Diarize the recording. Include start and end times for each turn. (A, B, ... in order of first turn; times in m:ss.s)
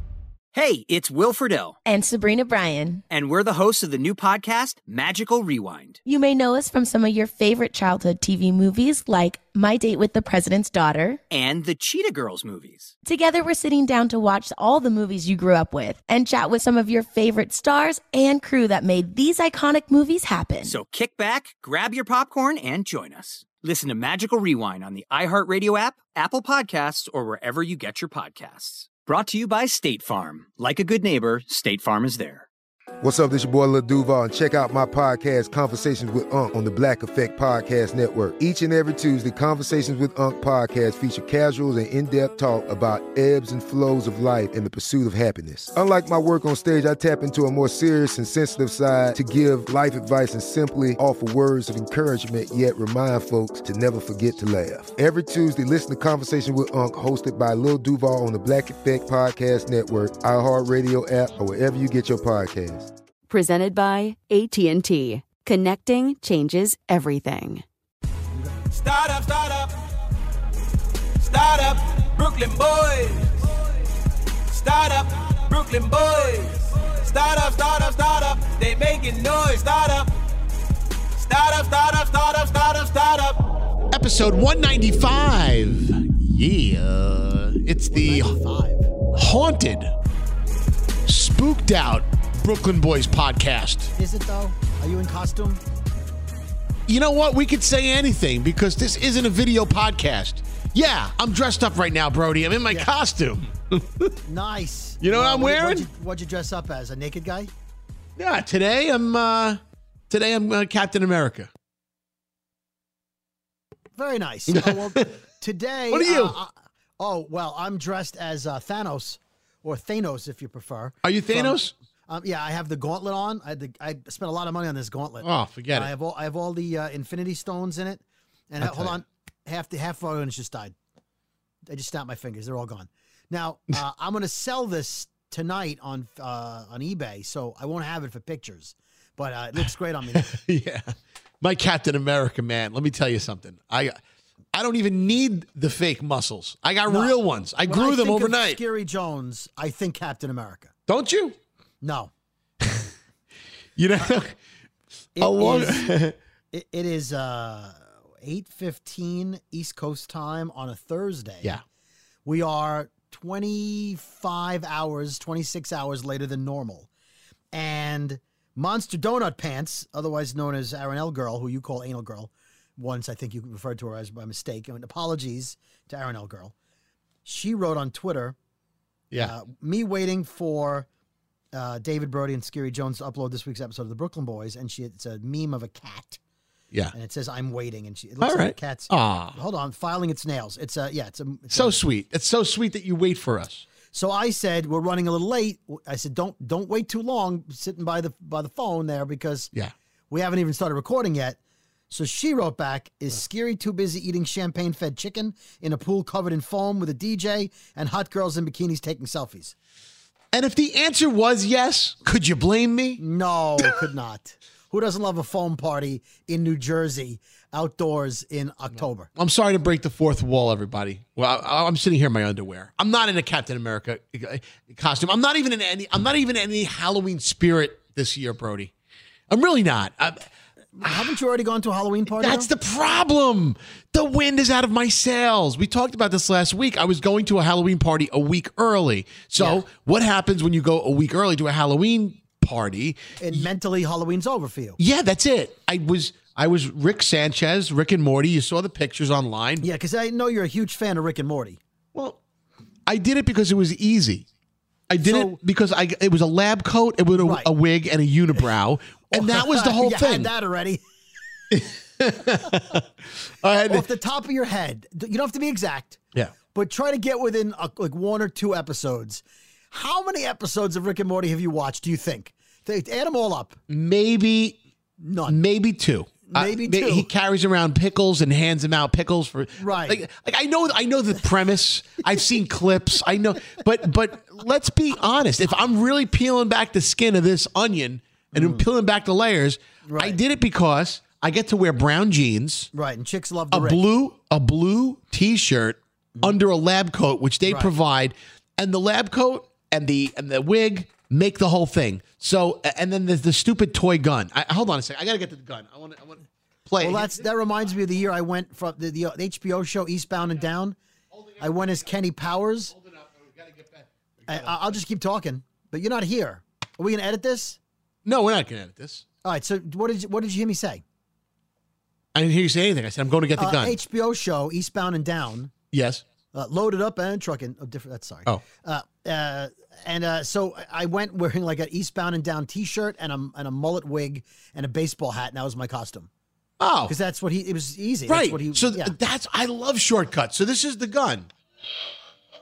0:00.5-0:01.8 A
0:01.8-0:03.0 B
0:03.1-0:06.0 A
0:06.0-0:11.2 B
0:11.3-0:12.9 A
0:13.0-0:20.8 B
0:20.6-0:32.5 A
0:33.0-1:02.9 C
1:03.3-1:07.6 D
1:08.7-1:09.8 E
1:11.2-1:13.6 E
1:14.5-1:20.2 E
1:21.1-1:23.5 E
1:23.9-1:28.4 F
1:27.9-1:28.9 G
1:29.1-1:29.9 F
1:31.0-1:33.9 F
1:34.0-1:35.6 G
1:36.9-1:44.1 F
1:44.2-1:47.5 G
1:45.0-1:45.9 F
1:48.2-1:51.5 F
1:54.0-2:10.7 G
1:54.5-1:55.1 F
1:55.9-1:56.4 F
2:01.0-2:01.7 F
2:05.2-2:05.9 F
2:08.6-2:09.0 F
2:11.7-2:20.3 G
2:20.1-2:24.0 F
2:24.5-2:28.6 F
2:26.9-2:30.7 G
2:30.9-2:31.4 F
2:31.8-2:32.1 G
2:32.6-2:32.9 F
2:33.8-2:34.4 F
2:35.2-2:35.9 G
2:35.2-2:36.2 F
2:36.5-2:41.6 G
2:42.2-2:46.9 G
2:47.5-2:56.5 G
2:57.2-2:58.4 G
2:59.2-3:00.9 G
3:01.5-3:06.2 G
3:06.9-3:11.8 G
3:08.2-3:09.4 F
3:11.5-3:13.6 F
3:13.9-3:19.5 G
3:20.1-3:21.4 G
3:21.9-3:29.5 G
3:30.3-3:33.0 F
3:33.0-3:39.1 G
3:39.2-3:48.7 F
3:49.3-3:50.2 F
3:50.8-3:52.5 G
3:52.1-4:03.4 F
4:03.2-4:04.8 G
4:04.8-4:09.7 F
4:09.6-4:11.6 G
4:11.9-4:12.2 F
4:12.9-4:14.3 F
4:14.9-4:20.3 F
4:15.0-4:15.4 G
4:17.1-4:17.5 G
4:19.1-4:20.8 G
4:21.5-4:23.9 F
4:23.7-4:26.0 G
4:26.5-4:33.6 G
4:33.7-4:34.6 F
4:35.0-4:35.4 G
4:35.2-4:52.7 F
4:36.3-4:37.1 G
4:39.6-4:40.0 G
4:48.3-4:48.6 G
4:49.8-4:50.2 G
4:52.7-4:53.8 G
4:53.5-5:07.3 F
4:57.4-4:57.7 G
5:06.8-5:10.8 G
5:11.1-5:11.9 F
5:11.4-5:12.7 G
5:12.7-5:14.8 F
5:14.3-5:17.6 G
5:18.0-5:19.0 F
5:19.2-5:20.8 G
5:22.1-5:23.8 F
5:23.4-5:25.5 G
5:25.7-5:26.0 F
5:26.3-5:36.1 G
5:36.6-5:36.9 F
5:36.9-5:38.9 G
5:38.1-5:41.3 F